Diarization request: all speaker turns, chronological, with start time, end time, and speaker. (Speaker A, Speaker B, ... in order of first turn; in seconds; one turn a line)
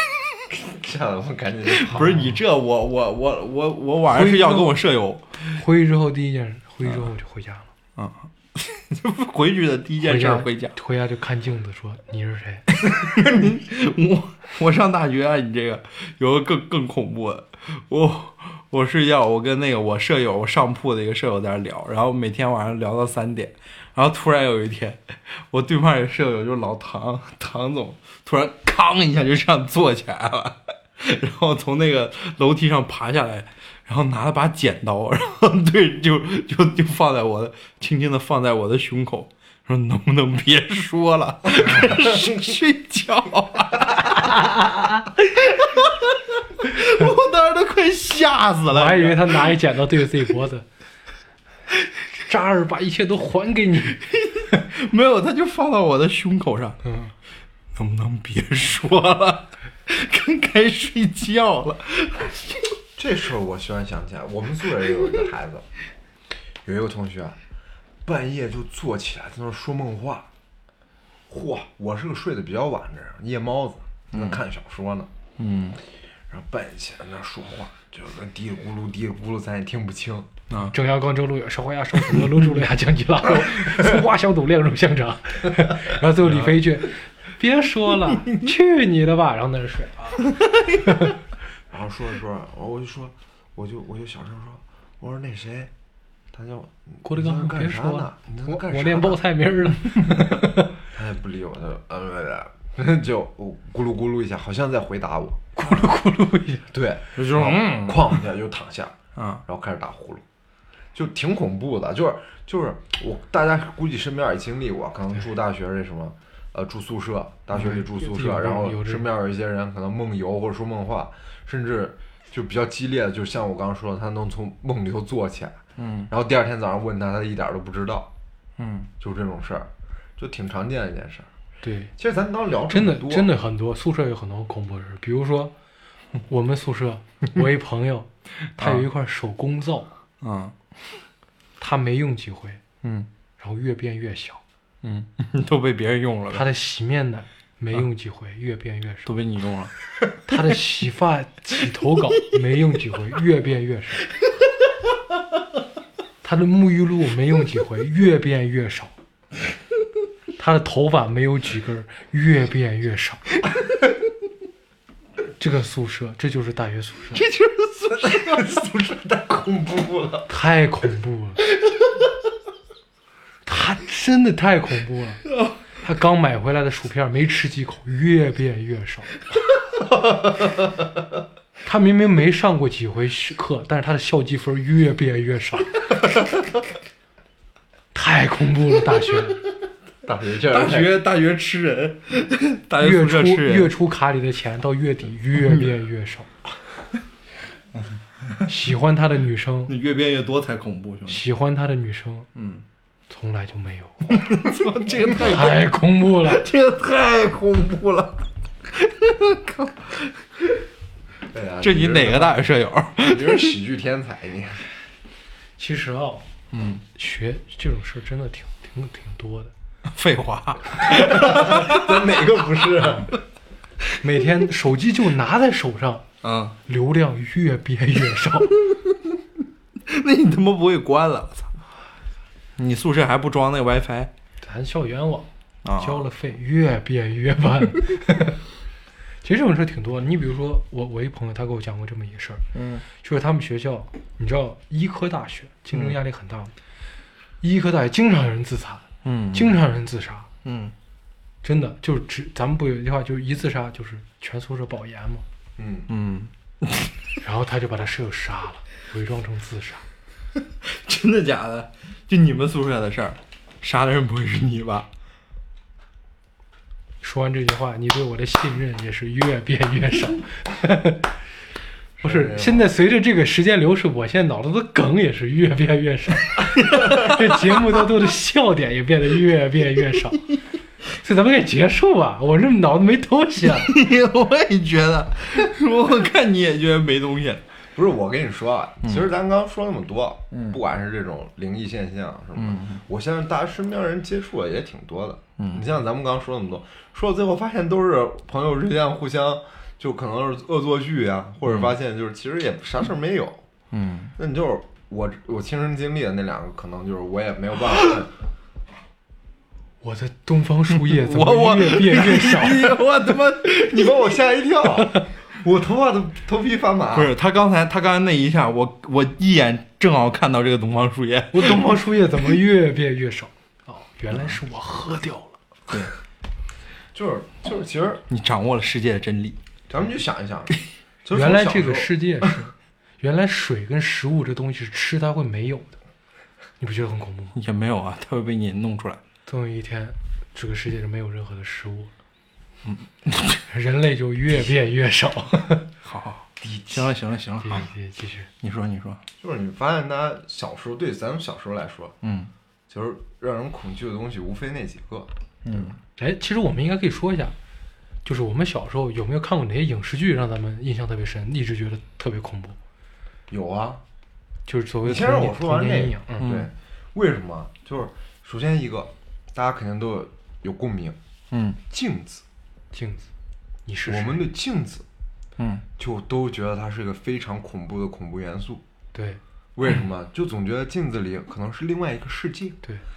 Speaker A: 0.5-2.2
Speaker B: 1.7-5.6
Speaker C: 1.9-2.4
Speaker C: 4.1-4.8
Speaker C: 5.5-7.7
Speaker B: 8.0-10.8
Speaker C: 10.0-12.7
Speaker B: 12.8-49.5
Speaker C: 44.2-45.0
Speaker C: 48.7-50.7
Speaker C: 52.2-54.0
Speaker B: 53.9-56.8
Speaker C: 56.8-57.1
Speaker B: 57.7-62.7
Speaker A: 63.0-65.7
Speaker A: 66.6-67.4
Speaker A: 68.0-70.3
Speaker A: 71.3-75.1
Speaker B: 74.1-74.4
Speaker B: 75.4-75.8
Speaker A: 76.3-80.4
Speaker B: 80.5-80.7
Speaker C: 80.5-90.3
Speaker B: 86.2-86.6
Speaker B: 90.4-90.8
Speaker C: 90.8-91.1
Speaker A: 91.7-95.7
Speaker A: 96.3-99.2
Speaker C: 97.0-100.7
Speaker A: 100.8-105.8
Speaker C: 105.5-106.7
Speaker A: 106.7-110.2
Speaker B: 107.2-108.2
Speaker B: 109.2-109.4
Speaker A: 110.9-128.1
Speaker C: 117.6-119.0
Speaker B: 125.8-126.1
Speaker B: 128.6-128.9
Speaker A: 129.0-131.3
Speaker C: 131.6-131.9
Speaker A: 132.0-133.3
Speaker C: 132.7-135.5
Speaker C: 136.3-139.9
Speaker B: 138.6-138.8
Speaker B: 140.2-140.5
Speaker C: 141.6-142.6
Speaker B: 142.8-143.1
Speaker C: 143.4-144.4
Speaker B: 144.8-146.4
Speaker C: 146.3-149.1
Speaker B: 149.1-149.7
Speaker C: 150.3-154.1
Speaker C: 156.2-158.9
Speaker C: 160.4-163.2
Speaker C: 165.4-167.2
Speaker B: 167.1-168.5
Speaker A: 167.9-170.3
Speaker C: 170.3-171.4
Speaker C: 173.4-175.2
Speaker C: 175.8-179.2
Speaker C: 181.6-185.8
Speaker C: 187.9-189.4
Speaker A: 190.0-191.0
Speaker B: 190.5-193.7
Speaker C: 192.8-196.3
Speaker C: 198.4-199.7
Speaker B: 199.7-201.2
Speaker C: 201.1-202.3
Speaker B: 202.3-202.6
Speaker C: 203.1-204.3
Speaker B: 204.1-210.3
Speaker C: 205.1-206.4
Speaker A: 211.3-214.7
Speaker B: 211.6-213.6
Speaker C: 215.6-216.3
Speaker B: 216.5-216.8
Speaker C: 216.9-219.5
Speaker B: 219.9-222.3
Speaker A: 220.8-223.1
Speaker C: 224.0-226.1
Speaker B: 226.2-226.6
Speaker C: 226.6-228.5
Speaker B: 228.7-228.9
Speaker B: 229.8-231.5
Speaker B: 232.6-234.1
Speaker C: 234.4-238.4
Speaker B: 235.6-236.1
Speaker C: 239.2-246.5
Speaker B: 242.5-242.8
Speaker B: 245.7-246.0
Speaker C: 247.4-250.3
Speaker B: 249.0-249.6
Speaker B: 250.4-250.7
Speaker C: 251.4-255.2
Speaker A: 255.6-255.9
Speaker B: 255.9-256.9
Speaker C: 257.2-259.8
Speaker B: 260.6-264.9
Speaker C: 267.0-271.1
Speaker A: 272.0-272.6
Speaker C: 272.0-280.3
Speaker B: 276.4-277.8
Speaker C: 281.0-283.7
Speaker B: 283.5-287.4
Speaker A: 287.7-303.5
Speaker B: 290.3-290.6
Speaker B: 292.4-292.8
Speaker B: 295.4-295.6
Speaker B: 301.5-301.7
Speaker B: 303.7-304.1
Speaker A: 304.2-308.1
Speaker C: 309.8-312.8
Speaker B: 310.8-314.0
Speaker A: 313.5-317.1
Speaker B: 316.9-321.9
Speaker C: 321.3-325.4
Speaker A: 326.9-328.0
Speaker B: 328.1-329.4
Speaker A: 329.7-332.3
Speaker C: 331.1-335.8
Speaker C: 336.6-337.4
Speaker B: 337.3-339.0
Speaker C: 339.3-341.9
Speaker B: 342.6-343.4
Speaker C: 343.5-345.6
Speaker B: 345.8-347.7
Speaker A: 346.4-346.9
Speaker C: 347.4-348.3
Speaker B: 348.4-349.0
Speaker A: 349.2-351.9
Speaker B: 352.0-352.3
Speaker A: 352.7-355.7
Speaker B: 355.4-355.8
Speaker C: 356.0-357.3
Speaker C: 358.0-362.6
Speaker A: 363.3-363.8
Speaker C: 364.5-366.2
Speaker A: 364.8-371.0
Speaker B: 366.2-366.5
Speaker B: 371.3-371.6
Speaker A: 371.7-372.2
Speaker C: 372.7-373.1
Speaker C: 373.6-374.2
Speaker A: 373.9-374.9
Speaker B: 375.4-375.6
Speaker A: 375.8-378.6
Speaker C: 378.9-379.2
Speaker A: 379.6-382.6